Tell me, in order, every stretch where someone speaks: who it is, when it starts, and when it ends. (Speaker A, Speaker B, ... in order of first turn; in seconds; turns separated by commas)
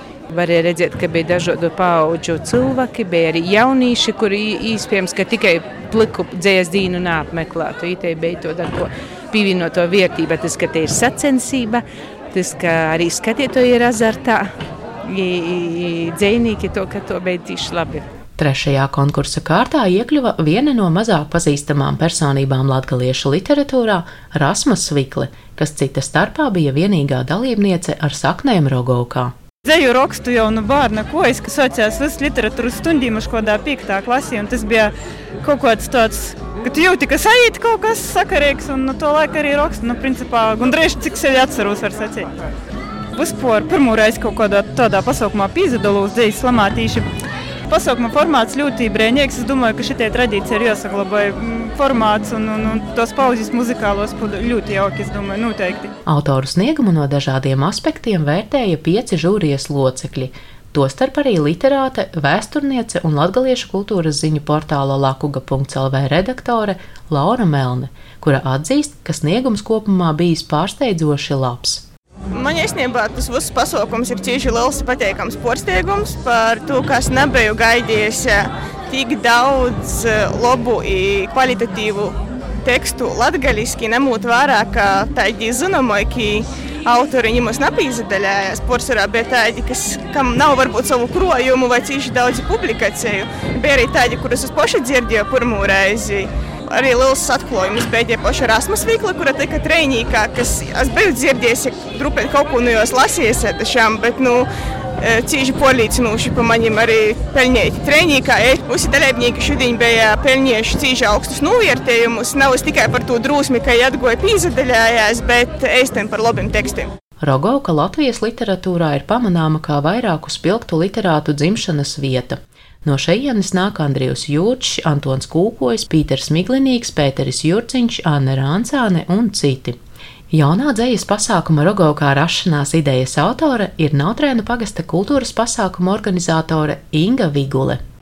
Speaker A: 0.3-14.5, Speaker A: 15.0-18.1, Speaker B: 18.4-29.3, Speaker C: 29.6-42.3, Speaker C: 43.1-47.1, Speaker C: 47.7-55.9, Speaker B: 56.1-71.8, Speaker D: 72.4-78.4, Speaker D: 78.9-82.1, Speaker D: 82.7-104.4, Speaker D: 105.0-116.9, Speaker B: 117.2-129.8, Speaker B: 130.3-137.8